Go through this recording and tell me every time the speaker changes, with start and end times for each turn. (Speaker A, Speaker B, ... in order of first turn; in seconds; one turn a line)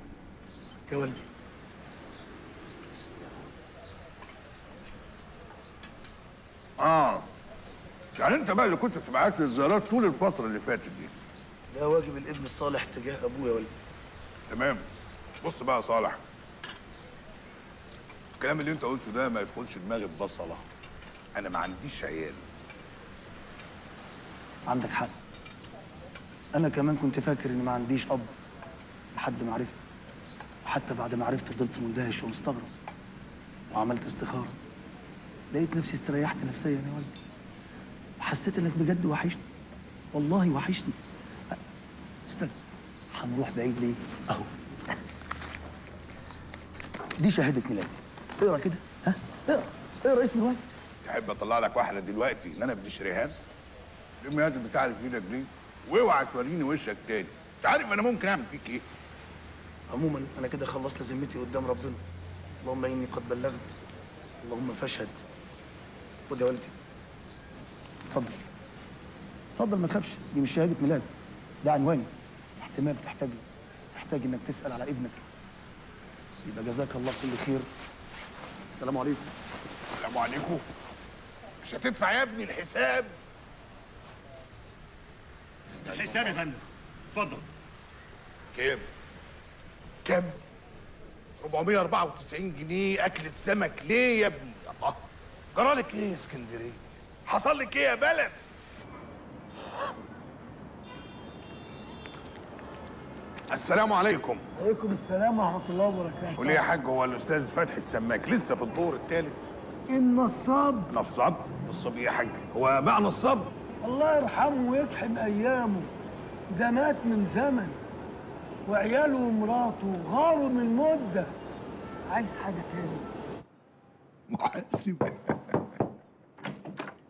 Speaker A: 0.9-1.2
Speaker B: 6.8-7.3
Speaker B: 8.2-11.1
Speaker A: 11.7-13.7
Speaker B: 14.5-14.8
Speaker B: 15.4-16.2
Speaker B: 18.4-20.6
Speaker B: 21.3-22.4
Speaker A: 24.7-25.1
Speaker A: 26.5-28.3
Speaker A: 29.1-29.8
Speaker A: 30.6-32.7
Speaker A: 33.7-34.6
Speaker A: 35.5-37.1
Speaker A: 38.2-39.4
Speaker A: 40.1-41.0
Speaker A: 42.3-42.5
Speaker A: 43.1-44.5
Speaker A: 47.2-50.7
Speaker B: 51.0-53.3
Speaker B: 54.2-58.8
Speaker A: 59.9-62.0
Speaker A: 62.6-63.8
Speaker A: 64.4-65.2
Speaker A: 66.2-66.7
Speaker A: 68.1-68.4
Speaker A: 69.5-71.1
Speaker A: 71.6-75.2
Speaker A: 76.4-77.7
Speaker A: 78.7-79.3
Speaker B: 80.0-80.6
Speaker B: 81.6-83.2
Speaker B: 85.9-86.4
Speaker B: 88.5-88.9
Speaker B: 90.0-90.4
Speaker B: 91.4-98.4
Speaker B: 103.5-104.4
Speaker C: 104.6-106.7
Speaker B: 106.3-109.5
Speaker C: 109.9-110.9
Speaker B: 110.9-113.5
Speaker C: 113.8-115.9
Speaker C: 116.5-117.8
Speaker C: 118.7-121.3
Speaker C: 122.1-123.0
Speaker B: 124.3-125.3